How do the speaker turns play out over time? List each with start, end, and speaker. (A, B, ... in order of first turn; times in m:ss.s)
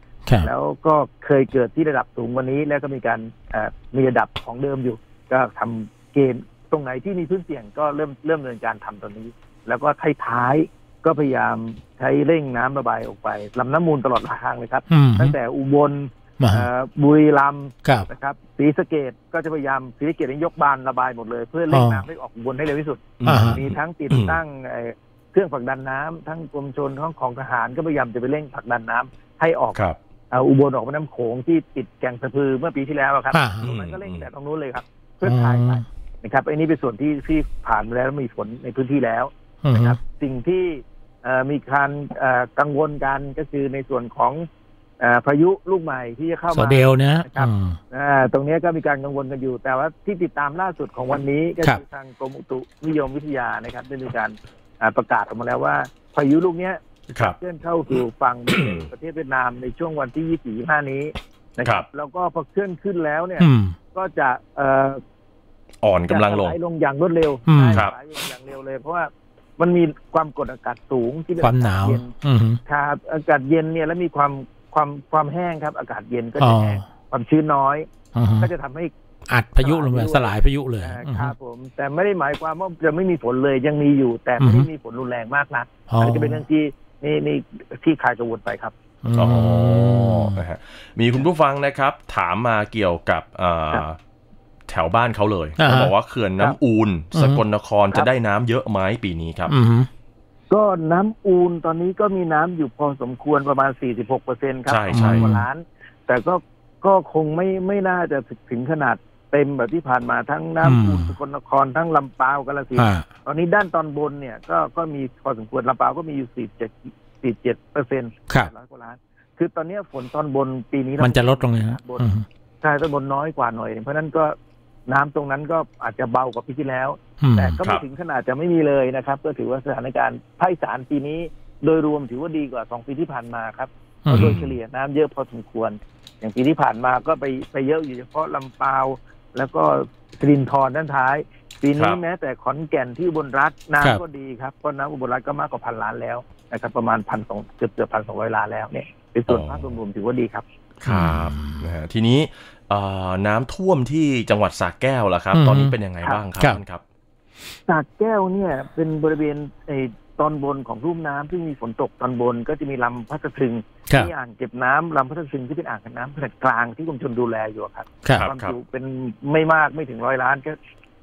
0:00.4-0:44.5 A
0:14.9-0:15.4 B
0:16.4-0:16.7 B
0:21.7-0:22.0 B
0:23.2-0:24.4 C
0:23.2-0:23.6 B
0:33.3-0:33.7 B
0:33.6-0:34.3 C
0:35.2-0:35.8 B
0:39.6-0:40.0 B
0:45.0-1:05.0 A
0:46.5-0:47.8 B
0:57.1-0:57.4 C
0:58.5-0:58.9 C
1:03.4-1:03.8 B
1:05.8-1:06.6 C
1:06.1-1:12.1 A
1:07.5-1:07.8 B
1:11.4-1:12.6 B
1:12.6-1:17.9 A
1:16.4-1:16.8 B
1:18.2-1:18.5 B
1:18.4-1:18.9 A
1:19.3-1:21.3 B
1:19.6-1:28.8 A
1:24.4-1:24.7 B
1:25.9-1:26.4 B
1:29.0-1:30.4 B
1:29.2-1:34.0 C
1:34.7-1:39.5 C
1:35.6-1:35.9 B
1:37.2-1:37.4 B
1:39.5-1:39.9 B
1:40.5-2:02.1 A
1:44.7-1:45.2 C
1:44.9-1:45.4 B
1:50.6-1:51.1 B
1:52.8-1:53.1 B
2:01.0-2:02.2 B
2:02.6-2:04.4 A
2:04.9-2:30.5 A
2:07.2-2:07.6 B
2:14.0-2:14.4 B
2:14.1-2:14.6 C
2:21.8-2:22.0 C
2:29.3-2:29.8 C
2:30.8-2:36.8 C
2:30.9-2:31.7 B
2:35.3-2:35.8 B
2:37.7-2:50.6 A
2:48.2-2:48.6 C